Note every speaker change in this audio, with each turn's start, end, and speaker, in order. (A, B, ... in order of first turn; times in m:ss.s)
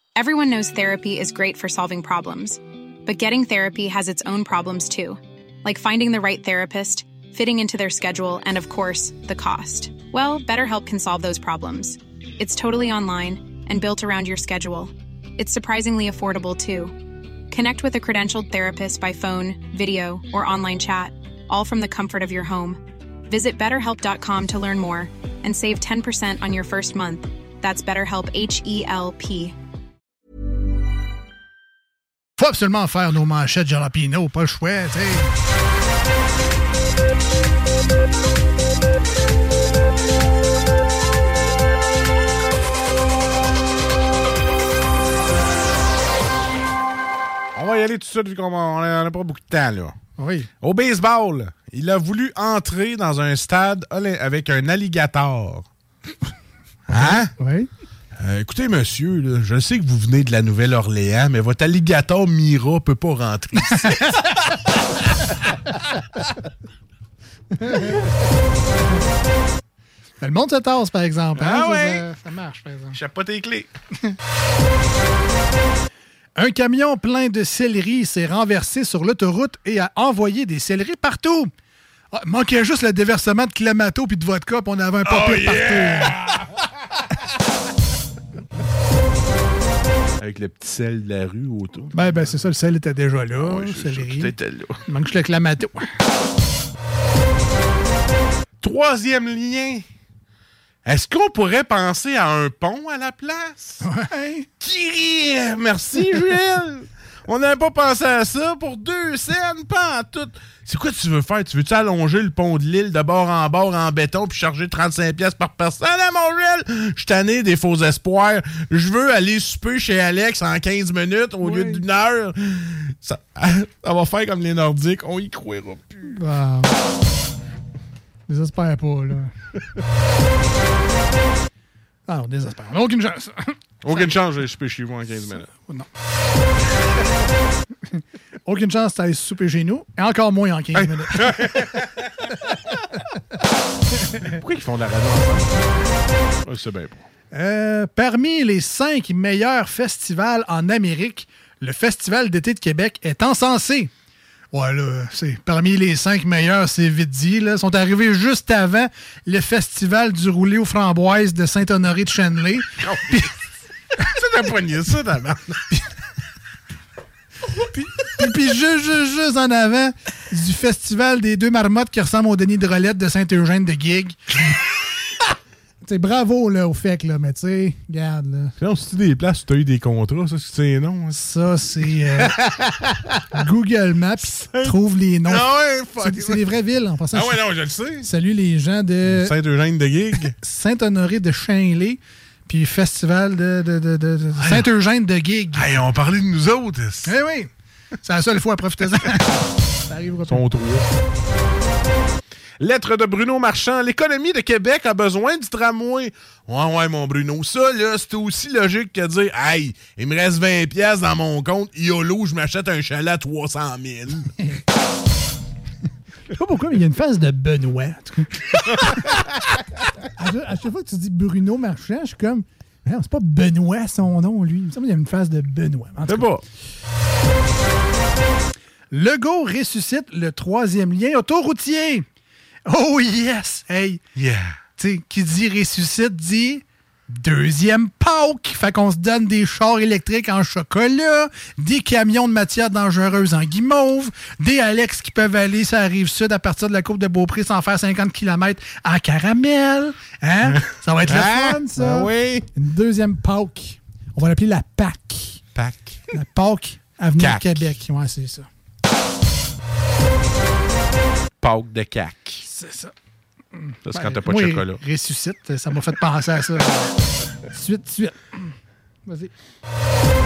0:00.2-0:29.6 A
0:32.4-0:35.3 B
0:47.6-0:50.0 C
0:50.2-0:50.5 B
0:50.6-0:55.7 C
0:56.9-0:57.3 C
0:56.9-0:57.7 B
0:58.2-1:04.7 C
1:03.7-1:04.1 B
1:07.6-1:08.1 B
1:10.2-1:13.0 B
1:11.4-1:12.0 C
1:12.9-1:13.7 C
1:16.4-1:21.5 B
1:22.1-1:26.2 B
1:25.0-1:26.5 C
1:30.2-1:32.0 C
1:31.9-1:34.4 B
1:33.4-1:34.8 C
1:34.9-1:35.9 B
1:38.6-1:39.8 C
1:40.9-1:43.8 C
1:43.8-1:44.5 B
1:44.6-2:06.0 C
2:01.4-2:01.9 B
2:06.1-2:06.8 B
2:08.3-2:09.3 B
2:12.1-2:14.1 B
2:13.8-2:15.5 C
2:15.5-2:15.9 B
2:17.9-2:21.8 B
2:20.8-2:21.9 C
2:24.2-2:25.6 C
2:26.4-2:27.0 C
2:27.3-2:33.9 B
2:34.5-2:43.3 B
2:42.8-2:43.2 C
2:44.0-2:45.6 C
2:47.5-2:54.2 B
2:55.8-2:58.6 B
2:58.6-3:01.2 C
3:01.1-3:02.4 B
3:02.1-3:03.4 C
3:03.3-3:07.4 B
3:05.3-3:06.4 C
3:07.1-3:08.1 C
3:08.0-3:09.4 B
3:09.1-3:10.3 C
3:10.3-3:15.8 B
3:14.4-3:14.6 C
3:15.5-3:17.1 C
3:17.0-3:17.5 B
3:18.0-3:20.4 B
3:20.3-3:20.9 C
3:22.6-3:34.3 C
3:36.3-3:39.3 B
3:40.2-3:46.4 B
3:46.1-3:46.4 C
3:48.9-3:52.1 B
3:52.7-3:54.0 B
3:54.2-3:54.6 C
3:54.8-4:15.4 B
4:10.6-4:12.5 C
4:15.6-4:16.0 C
4:16.1-4:18.5 B
4:17.2-4:17.7 C
4:21.4-4:22.4 C
4:22.4-4:22.9 B
4:23.6-4:26.9 B
4:23.9-4:24.8 C
4:27.5-4:28.5 B
4:29.1-4:29.3 B